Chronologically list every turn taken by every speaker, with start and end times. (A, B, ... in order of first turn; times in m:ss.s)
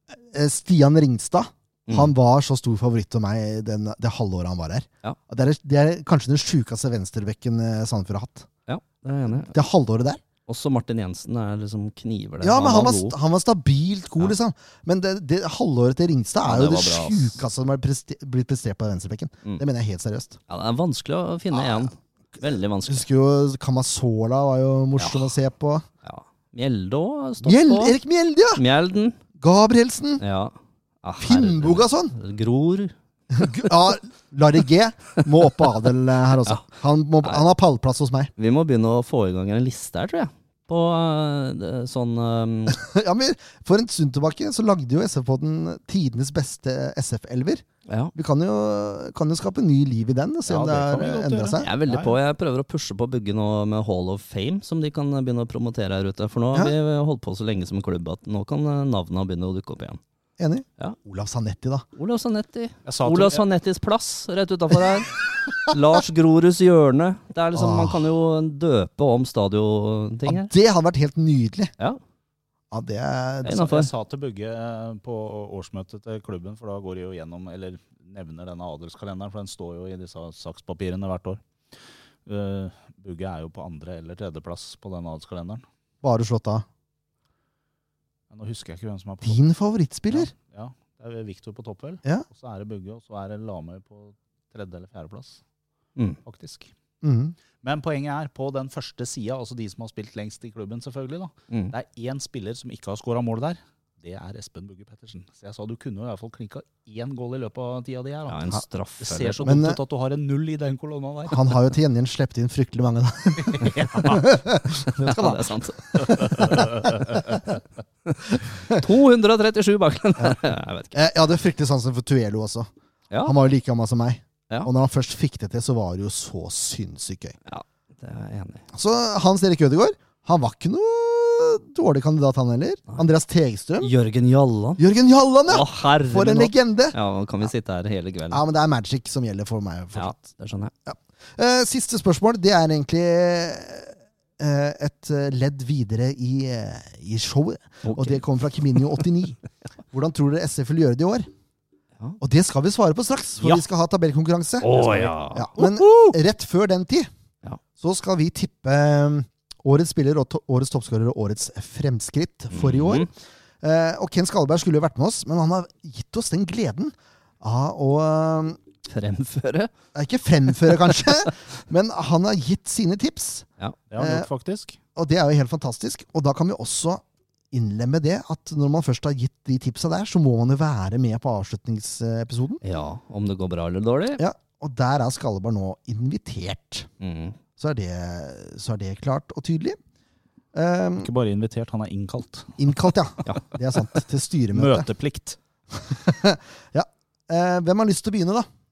0:00.1-0:08.5 A
0:01.9-0:02.1 B
0:08.7-0:09.5 B
0:09.5-0:10.2 A
0:10.5-0:13.2 B
0:12.4-0:20.4 A
0:16.4-0:17.4 B
0:20.5-0:23.1 B
0:21.5-0:21.9 A
0:22.9-0:25.9 A
0:25.0-0:25.3 B
0:26.0-0:28.0 B
0:27.4-0:28.6 A
0:28.6-0:29.2 B
0:29.4-0:30.2 A
0:30.2-0:33.7 B
0:31.2-0:32.2 A
0:33.3-0:38.3 A
0:38.4-0:42.8 B
0:42.7-0:51.7 A
0:47.9-0:48.1 B
0:50.5-0:52.2 C
0:51.6-1:00.0 B
1:00.4-1:01.9 A
1:02.0-1:10.5 B
1:02.9-1:03.4 C
1:07.5-1:08.1 A
1:10.3-1:11.7 A
1:12.7-1:13.8 A
1:13.4-1:13.9 B
1:13.6-1:21.4 C
1:22.3-1:25.6 C
1:26.0-1:26.6 A
1:28.3-1:29.4 C
1:29.2-1:30.3 A
1:30.1-1:35.4 C
1:36.2-1:36.7 C
1:37.0-1:37.4 A
1:37.6-1:48.4 C
1:41.5-1:41.8 B
1:48.3-1:49.5 B
1:49.0-1:51.5 C
1:49.4-1:49.8 A
1:51.3-1:57.4 A
1:53.4-1:54.3 C
1:54.9-1:57.3 B
1:56.5-1:56.9 C
1:58.1-2:01.0 B
2:00.9-2:02.7 A
2:03.2-2:07.4 A
2:07.5-2:08.6 B
2:08.7-2:13.9 A
2:13.8-2:14.8 B
2:14.8-2:17.0 A
2:15.5-2:18.4 B
2:18.3-2:20.2 A
2:20.0-2:20.7 B
2:20.9-2:29.4 A
2:27.8-2:28.2 B
2:28.8-2:29.0 B
2:29.9-2:31.3 A
2:32.2-2:37.1 A
2:34.6-2:36.2 B
2:37.8-2:48.6 A
2:42.5-2:43.1 B
2:48.9-2:49.7 B
2:49.9-2:53.5 A
2:50.7-2:51.2 B
2:53.9-2:54.8 C
2:54.0-2:54.3 A
2:55.0-3:02.6 A
3:02.6-3:04.2 B
3:04.2-3:06.9 A
3:07.0-3:07.4 B
3:07.6-3:09.8 A
3:10.5-3:11.1 A
3:11.0-3:12.6 C
3:12.6-3:14.9 A
3:14.5-3:15.4 C
3:15.8-3:18.5 A